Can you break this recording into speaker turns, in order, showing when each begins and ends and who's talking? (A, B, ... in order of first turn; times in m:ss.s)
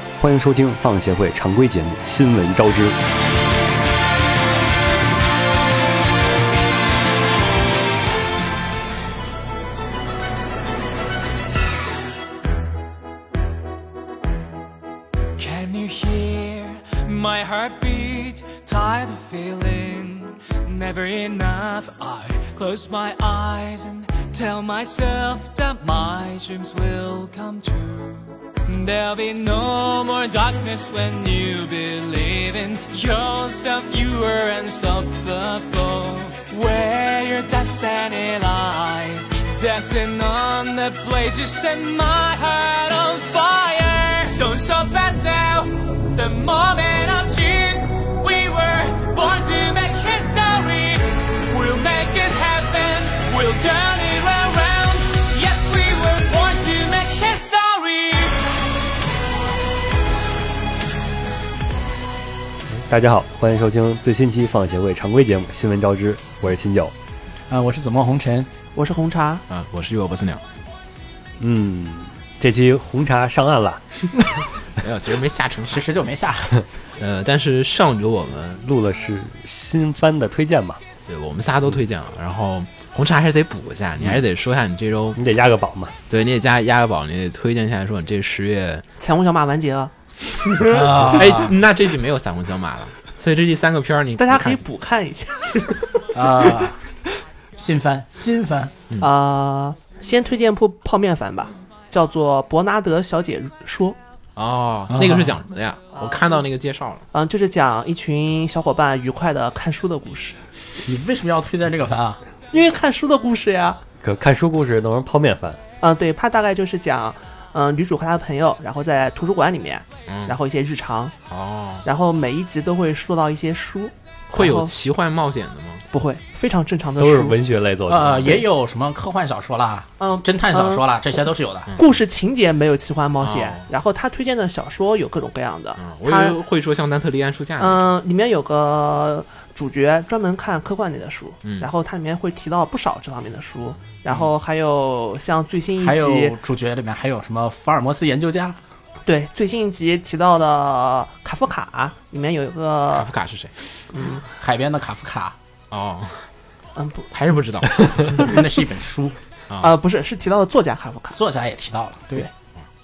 0:00.2-0:03.0 A
0:15.4-0:58.4 B
1:02.7-1:06.9 A
1:07.5-1:08.5 C
1:08.7-1:09.4 D
1:09.5-1:10.4 E
1:11.4-1:13.8 A
1:14.8-1:15.9 E
1:15.7-1:16.6 C
1:17.0-1:18.6 E
1:18.6-1:20.8 A
1:21.0-1:25.2 E
1:25.2-1:25.9 A
1:26.1-1:28.8 E
1:29.0-1:29.9 D
1:30.4-1:34.6 E
1:30.6-1:31.6 C
1:34.2-1:36.7 D
1:36.1-1:36.8 C
1:37.6-1:38.7 C
1:39.0-1:44.0 D
1:44.4-1:47.1 E
1:44.9-1:45.4 C
1:46.0-1:46.4 D
1:47.1-1:50.4 D
1:50.8-1:52.2 C
1:52.5-1:53.8 D
1:54.0-1:55.6 A
1:55.8-2:01.1 D
2:00.1-2:00.4 E
2:01.3-2:01.8 E
2:01.8-2:04.7 D
2:04.3-2:05.8 E
2:05.9-2:07.4 D
2:07.0-2:08.4 A
2:07.9-2:11.7 C
2:10.0-2:10.8 D
2:11.7-2:16.4 D
2:13.2-2:13.7 E
2:15.8-2:17.9 E
2:17.6-2:26.3 D
2:25.8-2:28.6 C
2:29.0-2:33.1 D
2:32.9-2:34.0 E
2:33.9-2:34.3 D
2:34.3-2:35.4 C
2:35.7-2:36.3 E
2:36.8-2:37.1 D
2:37.1-2:38.4 E
2:37.9-2:38.4 D
2:38.2-2:39.2 C
2:39.5-2:39.7 E
2:39.6-2:41.2 D
2:41.1-2:42.3 C